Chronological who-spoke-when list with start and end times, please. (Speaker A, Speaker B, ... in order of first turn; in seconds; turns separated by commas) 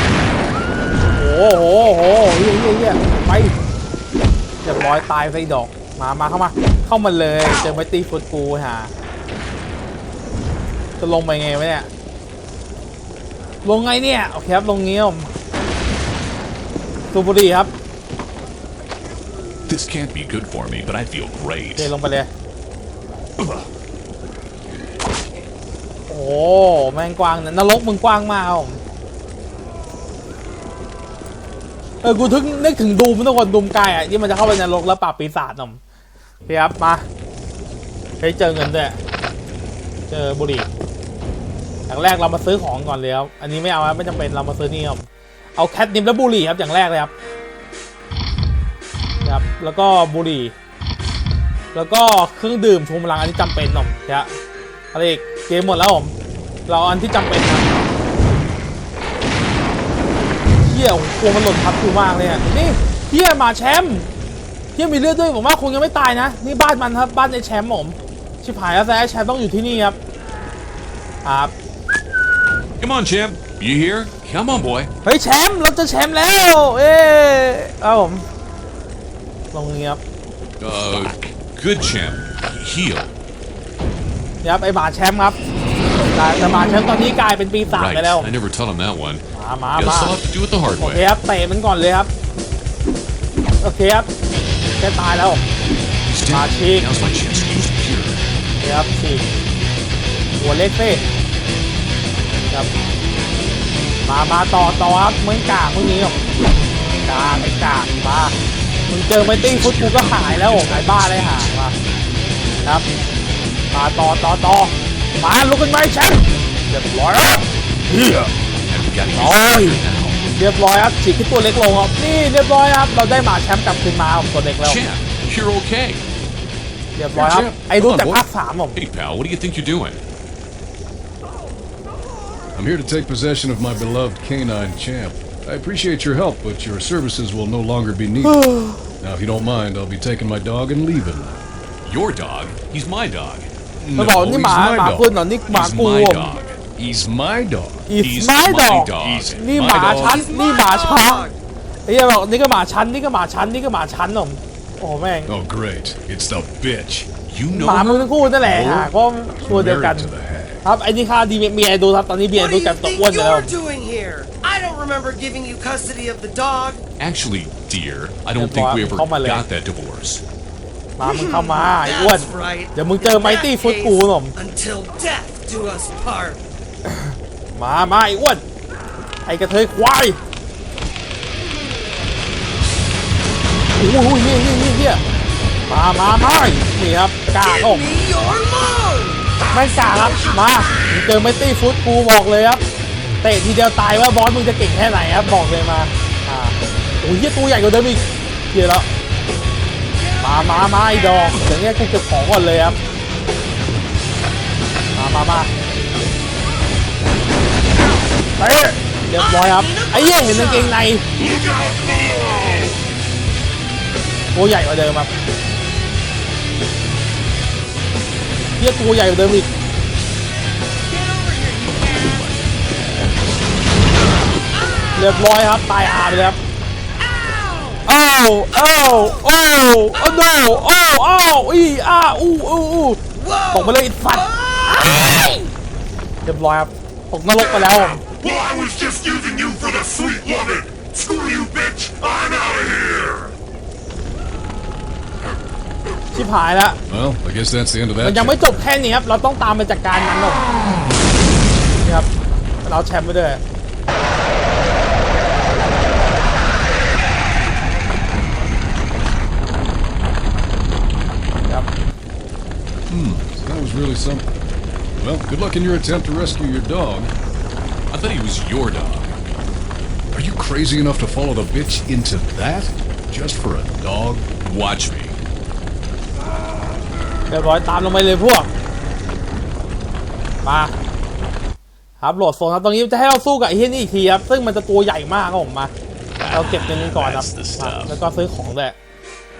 Speaker A: 1.1-3.5, Speaker A: 4.6-8.9, Speaker A: 11.0-11.9, Speaker A: 13.6-15.3, Speaker A: 17.1-17.7, Speaker B: 19.7-21.9, Speaker A: 21.8-22.3, Speaker A: 26.1-28.8, Speaker A: 32.0-35.8, Speaker A: 36.5-37.0, Speaker A: 38.2-39.0, Speaker A: 40.1-40.7, Speaker A: 41.9-45.1, Speaker A: 45.6-47.1, Speaker A: 49.2-50.5, Speaker A: 51.7-54.3, Speaker A: 54.9-56.1, Speaker A: 56.7-57.9, Speaker A: 60.6-64.1, Speaker A: 64.8-70.0, Speaker A: 71.2-71.5, Speaker B: 72.8-74.9, Speaker A: 75.0-78.3, Speaker A: 79.5-80.0, Speaker B: 80.6-83.1, Speaker A: 84.4-85.4, Speaker A: 86.2-88.3, Speaker B: 87.7-89.2, Speaker A: 89.3-90.2, Speaker B: 89.8-91.0, Speaker A: 90.8-92.1, Speaker A: 93.6-94.1, Speaker A: 94.8-95.5, Speaker B: 96.1-98.3, Speaker A: 96.3-96.9, Speaker A: 98.6-99.3, Speaker A: 100.4-101.0, Speaker A: 104.1-106.2, Speaker A: 107.1-108.3, Speaker A: 108.9-111.8, Speaker B: 109.2-111.5, Speaker A: 113.7-118.3, Speaker B: 118.7-120.2, Speaker A: 119.2-119.8, Speaker A: 120.4-124.8, Speaker B: 124.6-126.0, Speaker A: 127.0-128.8, Speaker C: 127.1-128.3, Speaker B: 128.8-130.0, Speaker C: 132.6-138.5, Speaker A: 138.2-138.8, Speaker C: 139.0-141.4, Speaker B: 141.8-143.5, Speaker C: 143.8-145.2, Speaker A: 143.9-146.4, Speaker B: 145.5-146.6, Speaker C: 146.8-147.9, Speaker A: 147.9-151.3, Speaker B: 148.0-149.4, Speaker C: 149.0-150.3, Speaker D: 149.8-151.4, Speaker A: 151.9-155.3, Speaker C: 155.3-157.1, Speaker B: 157.3-158.2, Speaker A: 157.5-160.1, Speaker C: 158.3-160.7, Speaker A: 160.6-163.5, Speaker D: 162.3-166.8, Speaker B: 167.0-170.2, Speaker A: 168.4-169.4, Speaker A: 171.0-174.3, Speaker D: 171.0-176.4, Speaker A: 176.9-178.4, Speaker A: 179.3-180.2, Speaker A: 183.8-185.0, Speaker A: 185.7-187.8, Speaker D: 187.4-189.3, Speaker A: 189.5-192.6, Speaker A: 193.2-198.9, Speaker D: 199.9-201.3, Speaker A: 200.2-202.8, Speaker A: 205.0-205.5, Speaker A: 208.4-211.1, Speaker D: 209.2-210.8, Speaker E: 211.2-212.4, Speaker D: 211.5-212.6, Speaker A: 214.3-215.1, Speaker A: 218.6-219.5, Speaker D: 220.9-222.2, Speaker B: 221.8-223.3, Speaker D: 224.5-225.1, Speaker A: 224.9-226.4, Speaker D: 227.0-227.8, Speaker A: 227.9-233.0, Speaker D: 228.5-229.3, Speaker D: 229.9-230.2, Speaker D: 233.2-235.3, Speaker A: 233.5-235.4, Speaker A: 236.2-238.0, Speaker E: 238.0-243.3, Speaker A: 246.1-246.8, Speaker C: 246.9-248.5, Speaker A: 248.0-250.5, Speaker A: 251.8-252.1, Speaker A: 252.6-253.4, Speaker C: 262.9-264.4, Speaker C: 265.0-267.1, Speaker B: 267.9-269.2, Speaker C: 270.1-274.3, Speaker B: 274.4-275.2, Speaker A: 277.3-278.5, Speaker A: 280.4-280.7, Speaker A: 282.0-285.7, Speaker B: 286.2-288.0, Speaker A: 286.3-288.8